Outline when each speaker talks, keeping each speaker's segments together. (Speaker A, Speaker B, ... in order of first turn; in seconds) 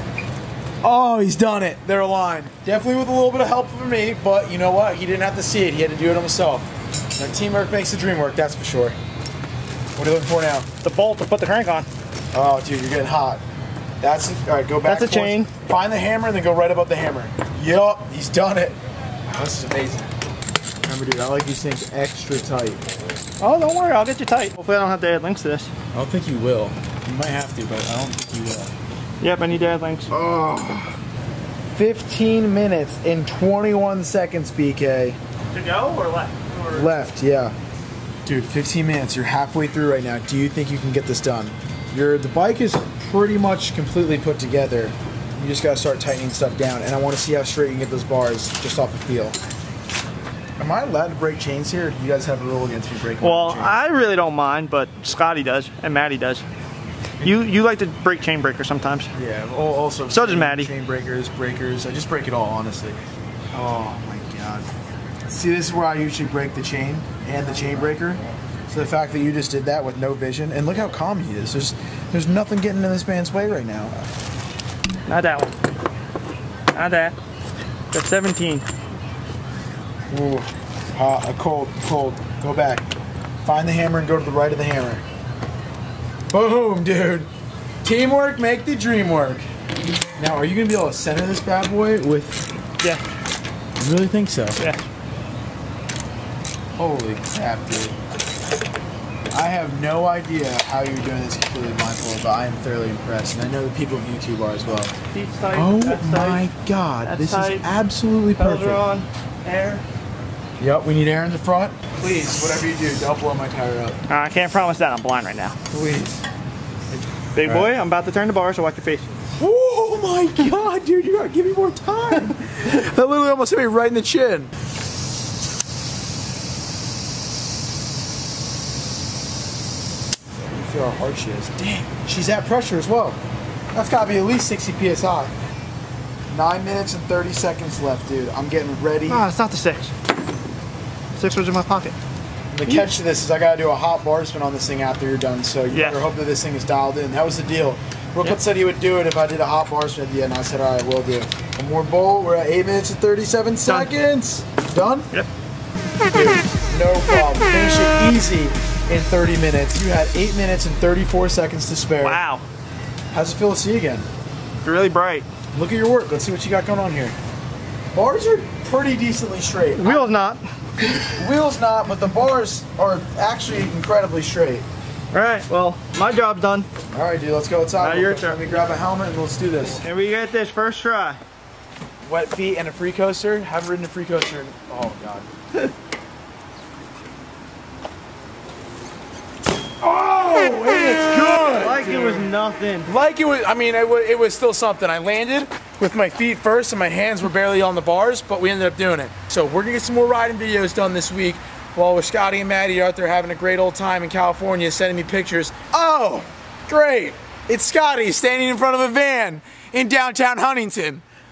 Speaker A: 0.8-9.0, 10.0-10.7, 12.3-13.4, 14.0-18.8, 19.3-20.1, 20.9-22.9, 25.9-28.7, 30.1-30.9, 31.7-35.2, 36.7-37.5, 38.2-49.4, 50.6-53.8, 59.1-63.0, 63.5-64.7, 65.3-74.0, 80.1-82.8, 83.4-85.0, 86.3-87.3, 87.8-89.5, 90.2-92.5, 93.8-94.6, 96.8-98.0, 99.3-104.9, 105.5-108.8, 110.6-114.0, 115.7-116.2, 117.4-117.7, 119.4-124.5, 130.4-133.2, 133.7-135.3, 136.3-139.2, 142.5-155.1, 156.1-162.2, 163.1-164.1, 165.5-167.2, 167.9-170.1, 171.2-174.7, 176.9-179.8, 182.1-185.3, 189.8-192.3, 192.9-211.0
Speaker B: 10.8-11.9, 14.8-15.5, 23.4-25.7, 29.2-30.1, 35.5-37.1, 53.2-56.5, 57.2-59.1, 60.1-60.7, 75.1-75.5, 76.7-77.2, 77.9-78.7, 94.6-94.8, 105.1-106.5, 107.0-107.7, 108.4-109.8, 114.1-115.6, 117.3-119.2, 139.1-139.9, 141.2-142.0, 142.7-142.9, 145.7-146.1, 153.7-153.9, 162.0-162.4, 164.6-165.3, 169.8-171.1, 175.1-176.7, 177.8-178.4, 179.7-181.2, 191.5-192.9